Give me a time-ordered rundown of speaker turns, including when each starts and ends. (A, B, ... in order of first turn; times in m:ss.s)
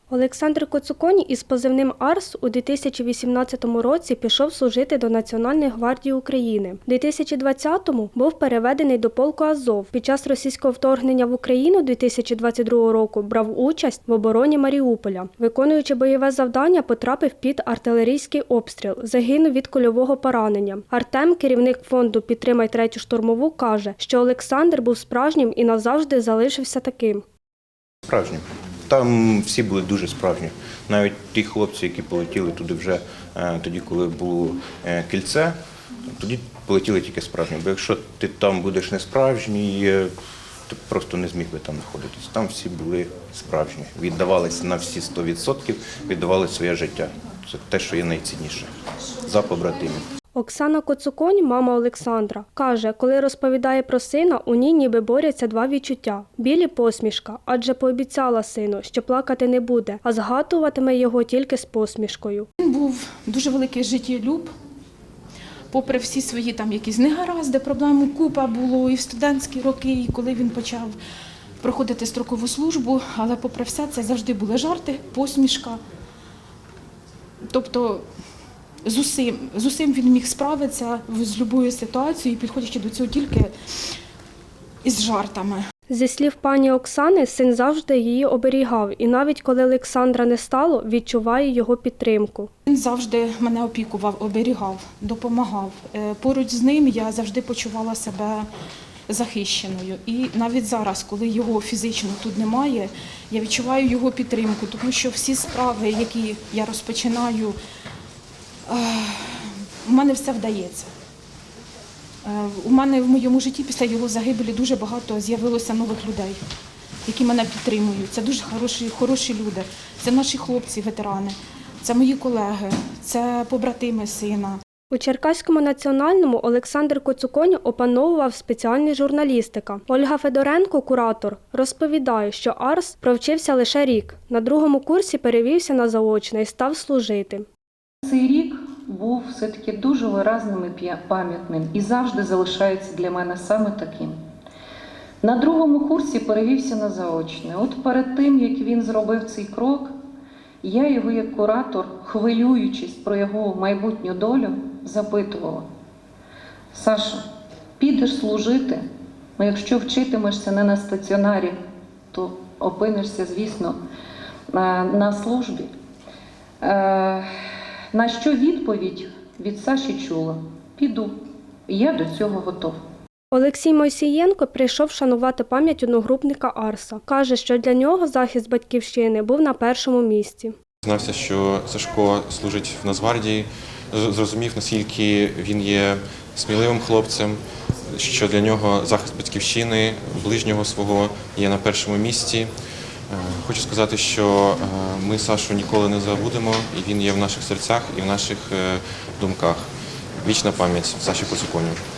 0:00.1-0:27.2 A
0:28.1-0:35.6 B
0:36.2-0:40.1 B
0:40.7-0:50.0 B
0:50.4-1:02.5 A
1:02.6-1:04.5 C
1:05.7-1:11.0 C
1:11.6-1:15.8 C
1:17.5-1:18.0 C
1:18.8-1:23.5 C
1:24.8-1:25.6 C
1:25.9-1:32.5 A
1:32.7-1:38.5 C
1:39.1-1:47.6 C
1:48.7-1:50.9 C
1:52.2-1:56.4 C
1:57.1-2:04.6 C
2:04.9-2:17.5 A
2:18.0-2:24.2 D
2:25.2-2:29.9 D
2:30.6-2:35.7 D
2:36.7-2:37.2 D
2:37.8-2:38.8 D
2:39.4-2:41.6 D
2:42.1-2:43.8 D
2:44.5-2:45.7 D
2:46.6-2:47.3 D
2:47.9-2:51.1 D
2:51.7-2:52.8 D
2:53.3-3:00.5 A
3:00.8-3:12.5 E
3:13.1-3:19.7 E
3:20.2-3:21.8 E